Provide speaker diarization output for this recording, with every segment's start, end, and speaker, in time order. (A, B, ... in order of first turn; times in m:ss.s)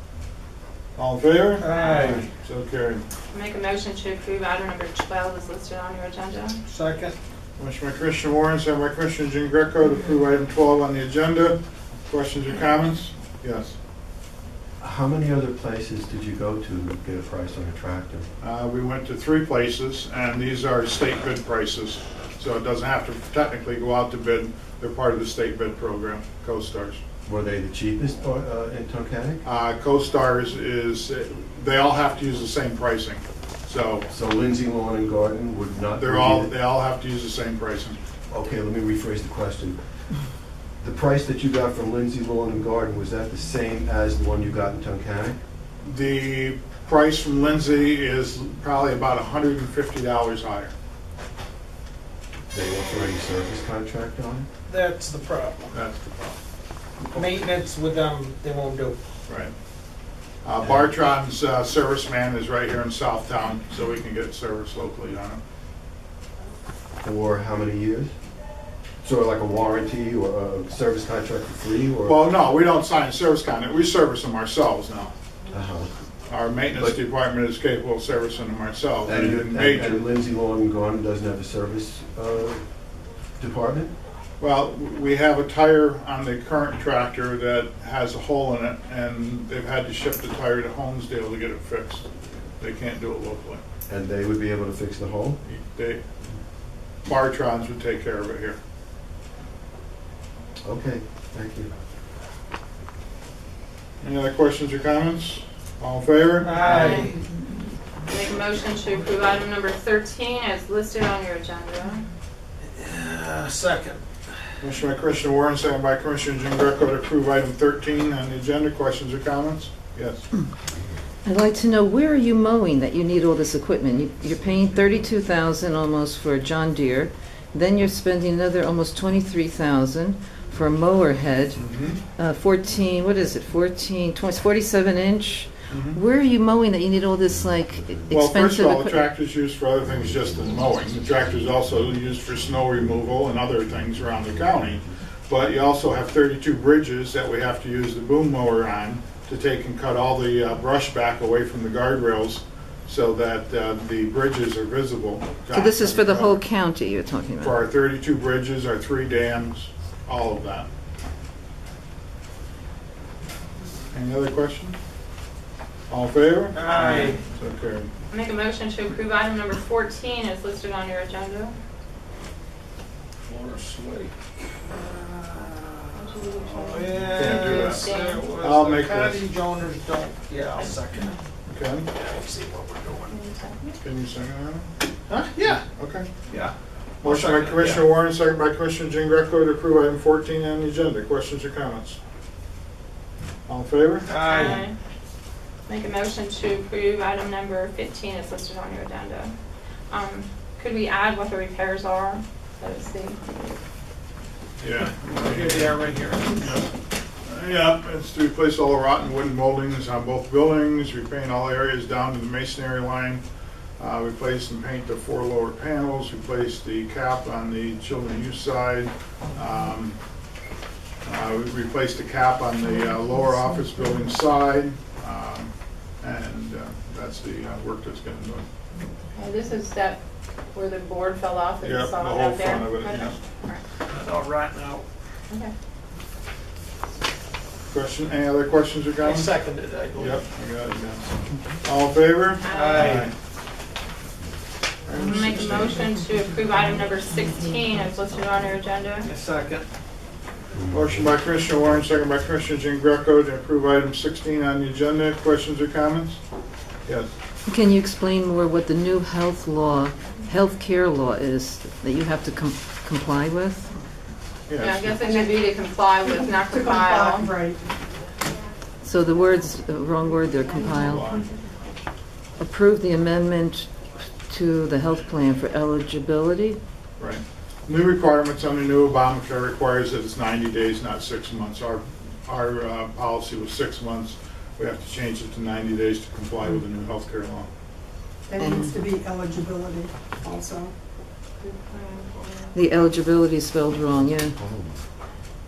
0:01.0-0:03.0 A
0:01.6-0:02.3 B
0:01.7-0:02.2 C
0:03.3-0:06.6 C
0:06.7-0:07.2 B
0:07.6-0:13.8 A
0:14.8-0:18.3 D
0:18.4-0:27.0 A
0:27.2-0:29.4 D
0:29.4-0:34.1 A
0:34.1-0:36.5 D
0:36.0-0:38.0 A
0:38.3-0:45.4 D
0:45.8-0:50.7 A
0:52.5-0:54.5 D
0:54.7-0:55.8 B
0:55.7-0:56.4 A
0:57.1-0:59.0 B
0:59.3-0:59.5 A
1:00.4-1:05.4 A
1:07.0-1:08.1 D
1:09.0-1:12.2 D
1:12.0-1:15.1 A
1:15.5-1:15.9 D
1:16.3-1:20.0 A
1:19.0-1:22.7 D
1:23.4-1:23.9 D
1:24.4-1:33.6 A
1:33.9-1:35.4 D
1:35.4-1:36.0 A
1:37.0-1:38.6 A
1:40.6-1:41.7 D
1:44.0-1:47.0 A
1:46.4-1:47.2 B
1:46.6-1:47.1 C
1:46.7-1:47.1 E
1:48.1-1:52.0 C
1:52.7-1:54.5 B
1:54.6-2:00.2 A
2:01.2-2:19.0 E
2:11.6-2:12.0 A
2:15.7-2:16.0 A
2:17.3-2:18.1 D
2:18.1-2:36.4 A
2:35.5-2:37.6 E
2:37.4-2:40.7 A
2:43.9-2:44.8 A
2:45.9-2:47.9 A
2:46.5-2:47.2 B
2:48.1-2:51.5 C
2:53.2-3:01.2 B
2:55.9-2:58.2 C
2:57.1-2:59.2 A
3:01.5-3:01.9 A
3:01.9-3:03.2 B
3:03.1-3:03.8 C
3:03.8-3:04.7 A
3:05.1-3:05.7 B
3:05.4-3:06.1 A
3:06.2-3:07.9 B
3:07.0-3:12.0 A
3:13.5-3:14.5 A
3:14.1-3:14.7 B
3:14.2-3:14.7 C
3:15.7-3:19.3 C
3:19.9-3:23.2 C
3:24.6-3:25.8 A
3:24.8-3:26.5 B
3:26.3-3:26.7 A
3:27.2-3:33.2 A
3:33.8-3:40.0 A
3:41.0-3:48.5 A
3:49.1-3:50.0 C
3:50.5-3:53.6 C
3:51.6-3:53.1 A
3:53.9-3:54.8 B
3:57.7-3:59.3 A
3:59.0-4:00.2 B
4:00.0-4:03.1 A
4:02.4-4:03.0 C
4:02.4-4:03.1 B
4:04.9-4:05.8 A
4:05.0-4:09.1 C
4:09.0-4:09.7 B
4:10.5-4:11.2 D
4:10.7-4:16.2 A
4:16.9-4:17.1 A
4:17.5-4:23.7 E
4:24.5-4:24.9 A
4:24.6-4:27.3 C
4:24.9-4:25.5 F
4:26.0-4:27.6 F
4:28.8-4:31.2 E
4:30.5-4:31.4 F
4:30.8-4:31.3 A
4:32.4-4:36.6 E
4:37.0-4:47.5 A
4:48.3-4:50.7 F
4:48.4-4:48.8 E
4:51.4-4:52.6 C
4:52.5-4:54.4 E
4:54.0-4:54.8 D